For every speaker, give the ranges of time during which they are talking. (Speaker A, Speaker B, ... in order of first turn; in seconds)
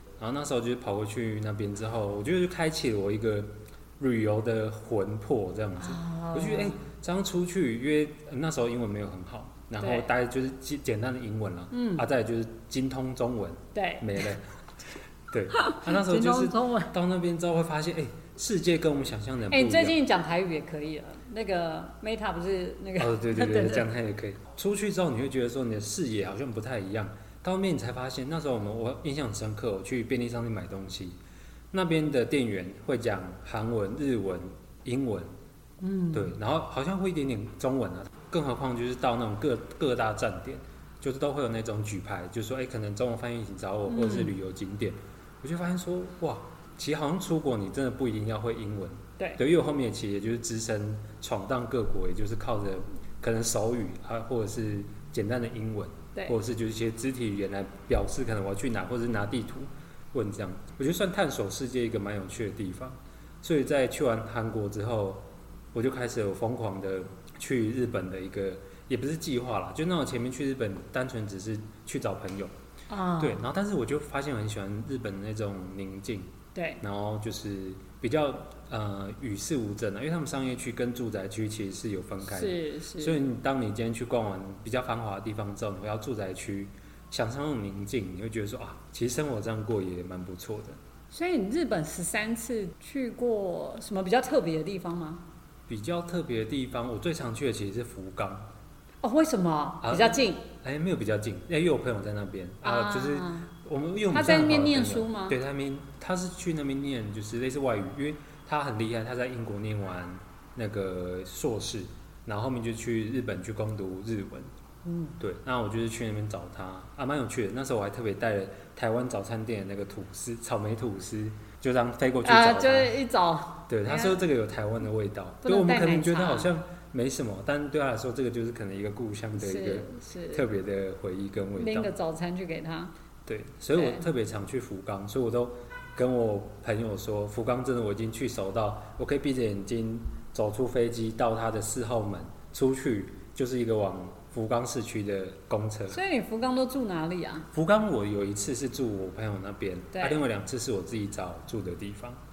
Speaker A: 0.2-14.4, 15.3-20.0, 23.0-31.2, 31.7-35.3, 36.1-72.5, 73.2-90.8, 95.7-98.5, 99.8-114.5, 115.2-123.0, 123.7-131.9, 133.3-146.0, 147.5-152.2
Speaker B: 5.8-6.8, 9.8-10.1, 11.7-12.0, 13.8-14.2, 15.5-16.9, 19.5-23.9, 35.8-36.4, 43.9-44.3, 72.9-73.4, 76.5-76.8, 82.2-83.2, 91.1-95.2, 99.0-100.5, 102.6-103.5, 104.1-105.4, 114.8-115.2, 122.2-124.2, 125.5-126.5, 129.4-130.4, 131.6-132.9, 133.8-134.0, 145.9-147.5, 149.9-150.2